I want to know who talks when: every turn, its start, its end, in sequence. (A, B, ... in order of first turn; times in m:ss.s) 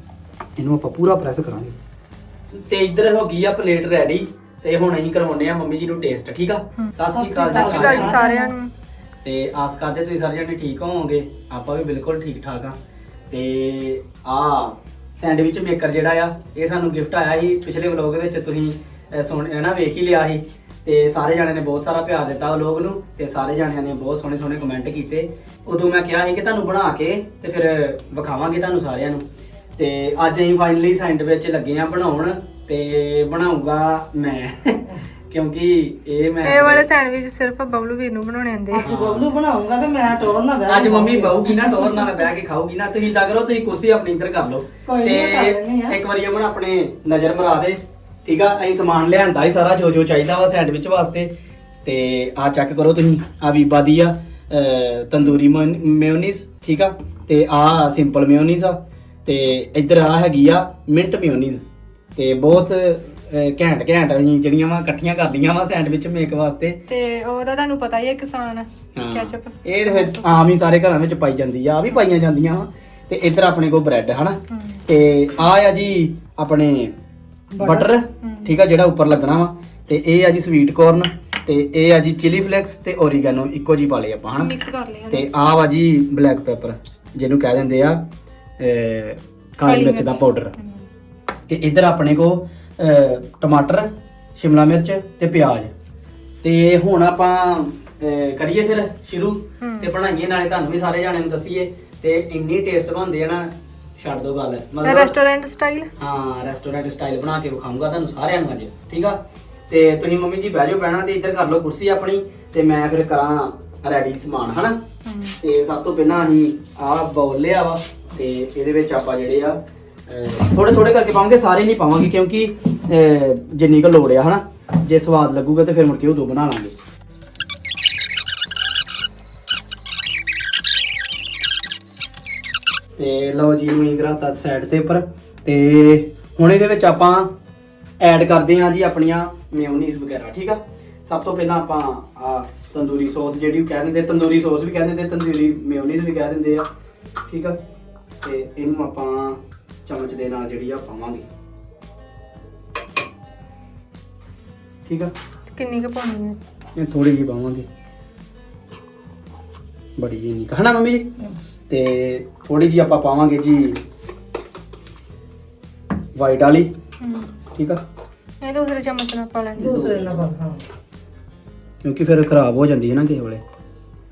0:00.6-0:01.7 A
0:02.5-0:08.2 A
0:07.1-0:08.5 B
0:07.5-0:08.7 C
0:09.2-0:12.8 A
0:13.3-0:29.2 A
0:29.8-0:36.9 A
0:36.4-0:38.9 C
0:38.8-0:42.0 B
0:38.8-0:39.3 A
0:40.6-0:51.3 A
0:41.6-0:42.1 C
0:44.9-0:46.0 B
0:51.8-1:01.6 A
1:02.2-1:06.8 A
1:06.9-1:10.3 C
1:09.0-1:16.9 A
1:14.5-1:14.8 C
1:17.5-1:17.9 B
1:17.6-1:24.5 A
1:18.2-1:18.5 C
1:24.4-1:25.3 C
1:25.1-1:28.0 A
1:28.6-1:30.5 A
1:29.6-1:30.8 C
1:31.5-1:35.7 A
1:36.4-1:45.2 A
1:39.6-1:39.9 C
1:44.8-1:45.9 C
1:46.0-1:54.8 A
1:55.0-1:55.4 C
1:55.4-2:06.8 A
2:13.0-2:17.3 A
2:18.0-2:26.7 A
2:27.3-2:27.6 A
2:28.2-2:31.3 A
2:34.8-2:35.1 A
2:35.5-2:36.4 C
2:36.8-2:37.6 A
2:40.0-2:41.0 A
2:41.7-2:43.8 A
2:46.2-2:46.7 A
2:47.0-2:47.4 C
2:47.5-2:47.8 A
2:48.4-2:49.7 C
2:49.6-2:50.3 A
2:49.6-2:50.6 B
2:51.8-2:53.4 A